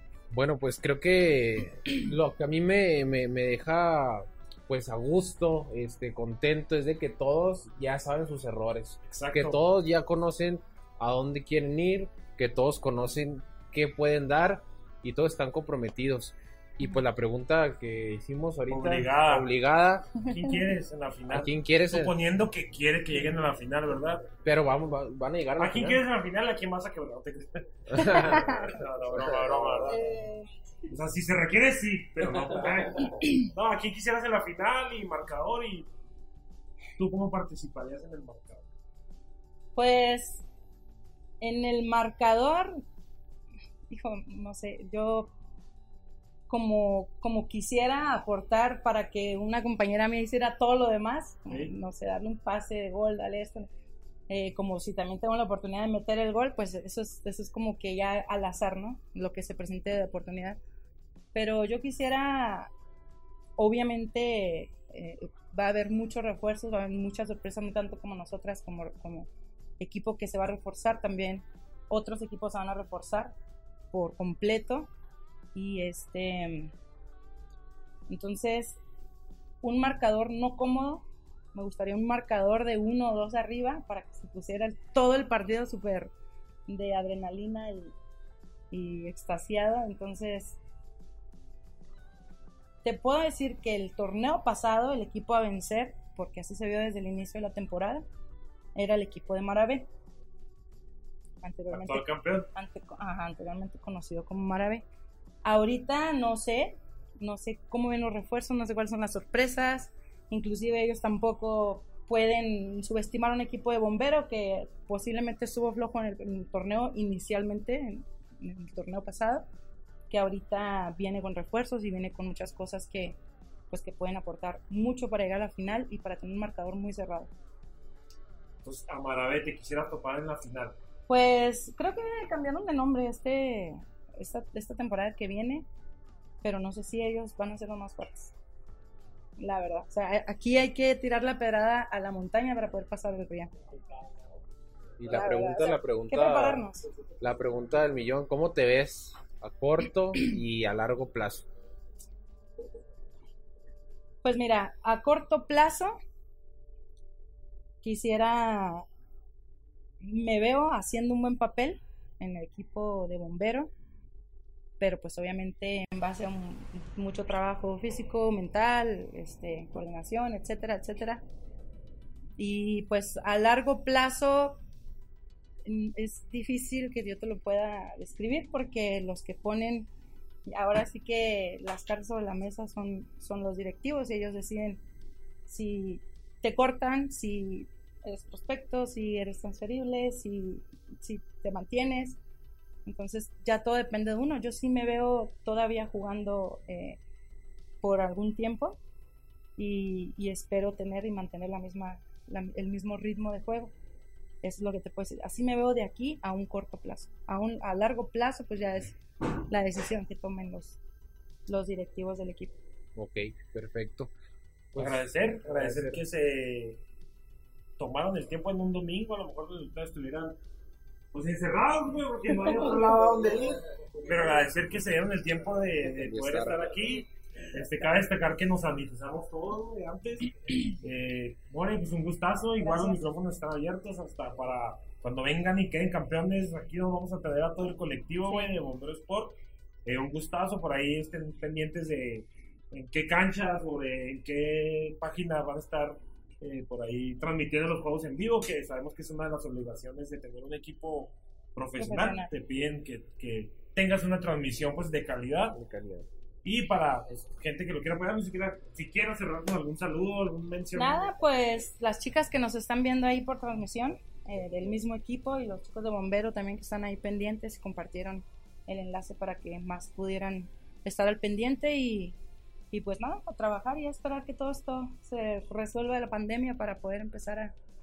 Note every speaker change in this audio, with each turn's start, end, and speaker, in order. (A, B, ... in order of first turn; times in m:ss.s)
0:00.3-0:20.1 A
0:09.1-0:09.6 B
0:18.7-0:19.5 B
0:20.2-0:24.3 B
0:21.3-0:22.2 A
0:24.4-0:26.0 A
0:25.6-0:30.2 B
0:27.9-0:28.5 A
0:28.2-0:28.7 C
0:29.1-0:30.0 A
0:29.9-0:30.5 C
0:30.9-0:35.9 B
0:37.0-0:38.6 B
0:39.8-0:40.4 C
0:41.4-0:42.8 C
0:43.9-0:45.3 C
0:46.5-0:53.7 C
0:51.5-0:51.7 B
0:54.3-1:00.6 C
1:01.3-1:02.7 C
1:03.6-1:09.3 C
1:09.8-1:13.4 C
1:13.9-1:14.9 C
1:15.6-1:16.7 C
1:18.1-1:18.8 C
1:19.6-1:26.1 C
1:26.7-1:28.0 C
1:28.7-1:30.6 C
1:32.8-1:38.1 C
1:38.8-1:39.9 C
1:41.4-1:44.8 C
1:41.7-1:42.5 B
1:45.4-1:59.5 C
2:00.1-2:03.2 C
2:03.7-2:07.3 C
2:08.6-2:10.8 B
2:11.1-2:15.7 C
2:16.4-2:18.3 C
2:19.4-2:23.6 C
2:25.0-2:26.7 A
2:25.0-2:26.9 C
2:27.2-2:31.5 A
2:34.2-2:36.0 C
2:37.8-2:38.9 C
2:40.0-2:43.7 C
2:44.8-2:51.2 C
2:52.4-2:54.6 C
2:55.6-2:59.9 C
3:00.5-3:04.8 C
3:05.5-3:12.2 C
3:12.9-3:17.0 C
3:17.8-3:18.8 C
3:19.6-3:23.7 C
3:24.4-3:30.8 C
3:31.5-3:32.5 C
3:33.0-3:34.1 A
3:34.7-3:36.0 A
3:34.8-3:36.8 B
3:37.8-3:40.4 B
3:41.1-4:15.6 B
3:45.8-3:46.7 A
3:52.6-3:53.0 C
4:11.8-4:12.3 C
4:15.5-4:16.1 A
4:16.4-4:21.2 B
4:20.7-4:32.2 C
4:32.7-4:37.6 C